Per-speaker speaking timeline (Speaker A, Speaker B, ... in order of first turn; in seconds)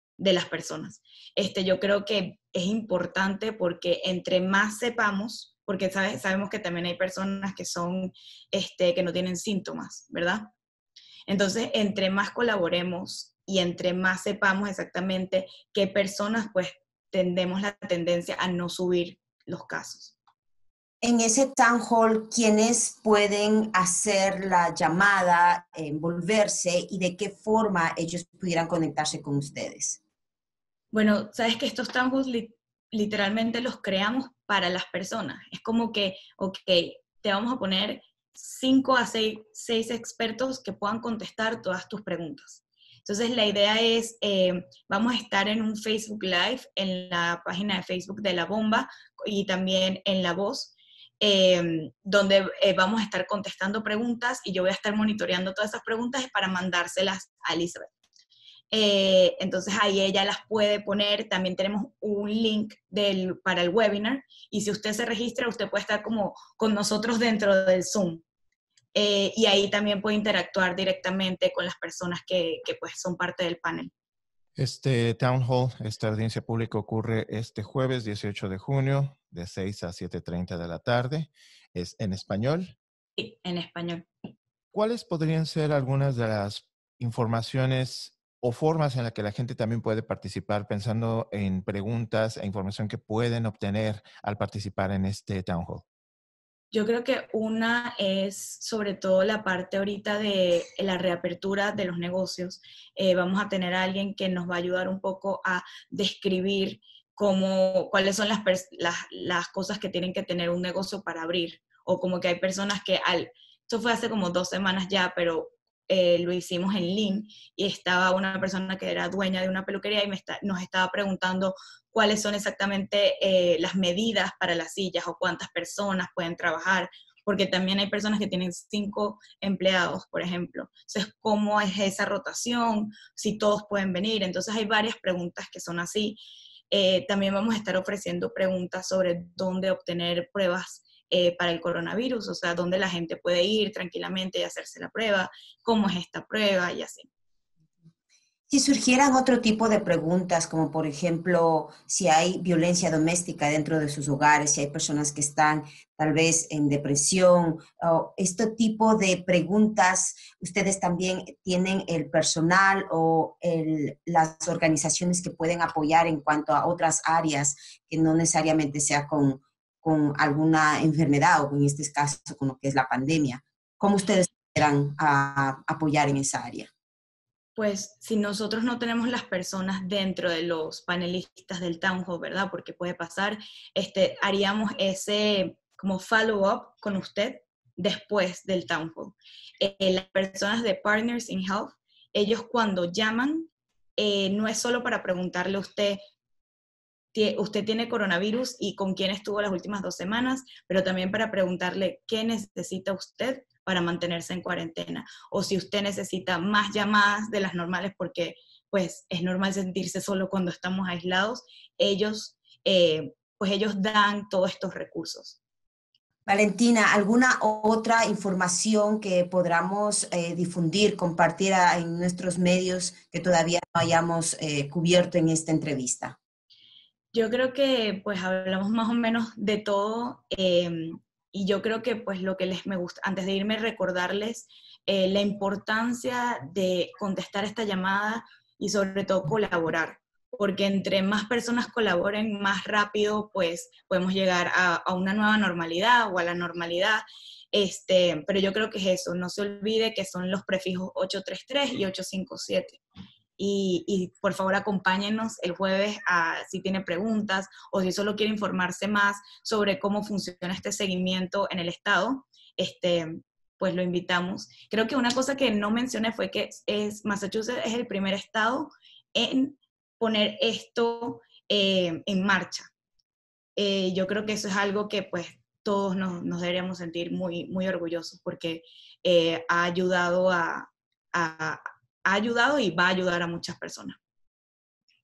Speaker A: 0.2-10.5, 11.3-20.2, 30.9-57.9, 58.7-68.2, 68.9-73.9, 83.2-84.1, 96.7-136.2, 136.7-147.1, 177.6-196.0, 197.1-215.4, 227.1-252.8, 253.4-272.7, 273.6-284.0
Speaker B: 21.0-30.0, 148.5-176.7, 216.2-226.2
Speaker C: 74.6-82.8, 84.7-95.8